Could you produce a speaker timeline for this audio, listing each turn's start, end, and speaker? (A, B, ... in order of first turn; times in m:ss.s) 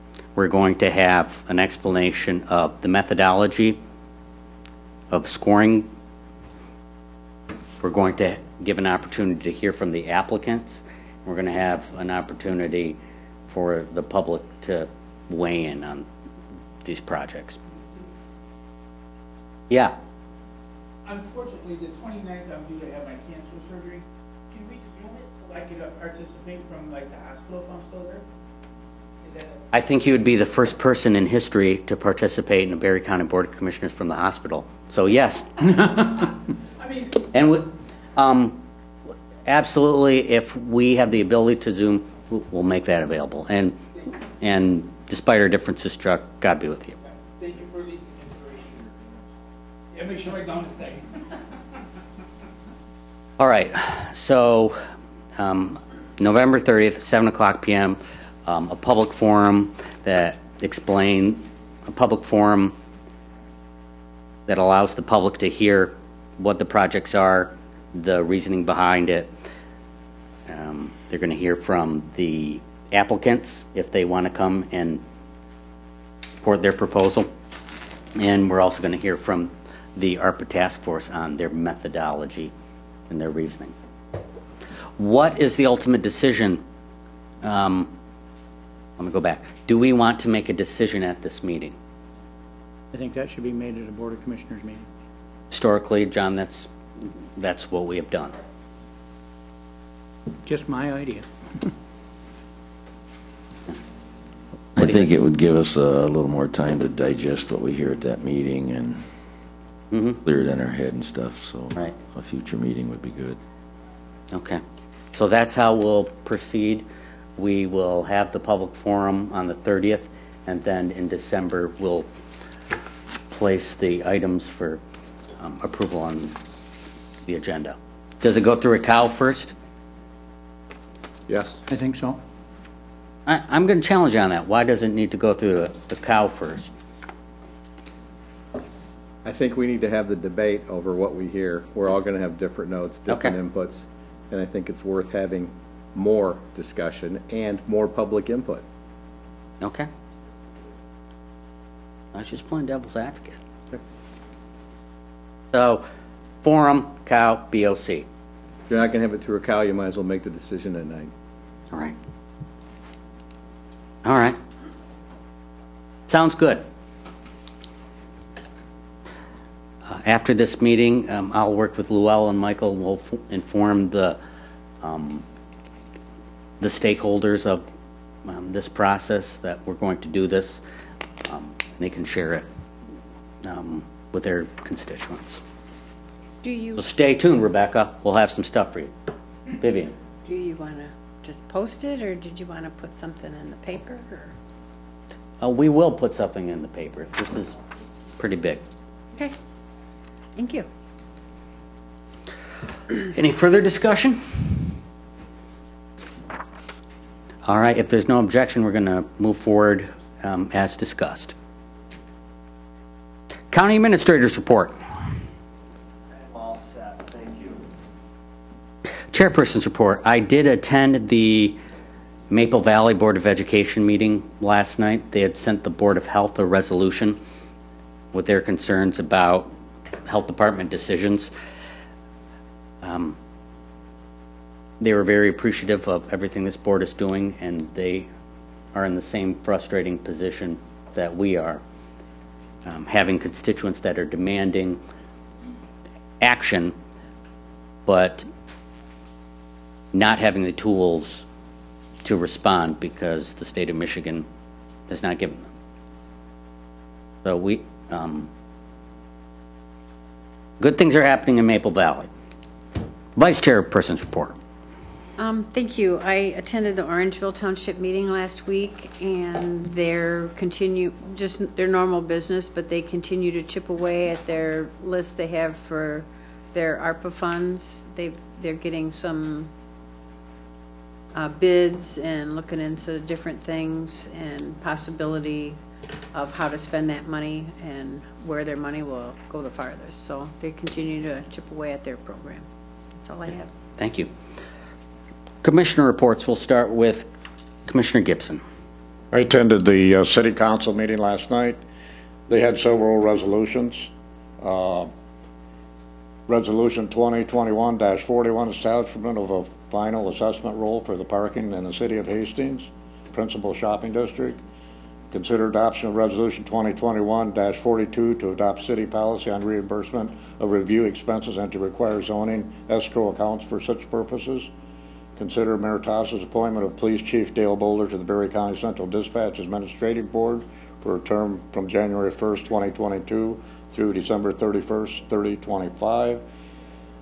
0:00.4-0:03.8 A
0:05.1-0:05.9 A
0:07.8-0:16.1 A
0:16.8-0:17.6 A
0:19.7-0:20.0 A
0:21.0-0:28.2 B
0:29.2-0:29.6 B
0:29.7-0:35.5 A
0:36.8-0:37.2 B
0:37.3-0:38.6 A
0:39.5-0:43.8 A
0:44.4-0:47.0 A
0:47.2-0:49.2 B
0:49.9-0:51.1 B
0:53.4-0:54.8 A
0:55.4-1:02.8 A
1:04.5-1:09.3 A
1:10.5-1:15.0 A
1:16.4-1:17.3 A
1:18.2-1:22.5 A
1:23.1-1:23.7 A
1:25.0-1:26.6 A
1:27.4-1:27.9 A
1:29.0-1:31.8 A
1:32.9-1:34.9 C
1:35.5-1:36.7 A
1:37.4-1:38.4 A
1:40.5-1:41.7 C
1:44.8-1:49.0 D
1:49.9-1:50.2 A
1:50.2-1:53.4 D
1:54.3-1:54.6 A
1:55.1-1:56.8 A
1:57.4-2:02.1 A
2:03.3-2:04.8 A
2:05.4-2:06.4 A
2:07.3-2:09.6 A
2:11.3-2:11.6 E
2:11.7-2:12.2 C
2:13.3-2:16.7 A
2:19.2-2:28.6 E
2:23.1-2:23.4 A
2:29.6-2:29.9 A
2:32.1-2:33.4 A
2:35.5-2:35.9 A
2:36.4-2:38.1 A
2:38.7-2:41.1 E
2:44.0-2:44.4 A
2:46.1-2:46.6 A
2:49.9-2:54.2 A
2:54.8-2:55.2 A
2:56.6-2:57.6 A
2:58.2-3:00.6 A
3:01.3-3:02.5 A
3:03.4-3:05.4 A
3:06.4-3:06.8 F
3:06.8-3:08.9 A
3:09.6-3:10.0 A
3:10.2-3:14.3 F
3:15.4-3:17.6 A
3:18.2-3:18.6 A
3:20.4-3:20.7 F
3:23.1-3:24.5 A
3:27.4-3:31.3 A
3:33.5-3:34.8 A
3:39.1-3:41.6 A
3:42.3-3:47.2 A
3:48.1-3:49.5 A
3:50.1-3:51.3 A
3:52.8-3:53.2 A
3:54.8-3:58.1 A
3:58.7-4:01.6 A
4:02.6-4:04.8 A
4:06.2-4:06.8 A
4:07.9-4:08.3 A
4:09.9-4:11.2 A
4:12.0-4:14.3 A
4:14.9-4:15.5 A
4:17.2-4:18.3 A
4:20.6-4:22.1 A
4:23.2-4:24.4 A
4:25.2-4:39.5 F
4:41.1-4:45.6 F
4:46.1-4:52.5 F
4:53.0-4:53.5 F
4:53.8-4:54.1 A
4:55.4-4:57.1 A
4:57.7-4:58.4 A
4:59.1-5:01.6 G
5:02.3-5:03.9 G
5:04.4-5:04.9 G
5:06.3-5:14.4 G
5:15.1-5:24.5 G
5:25.2-5:36.2 G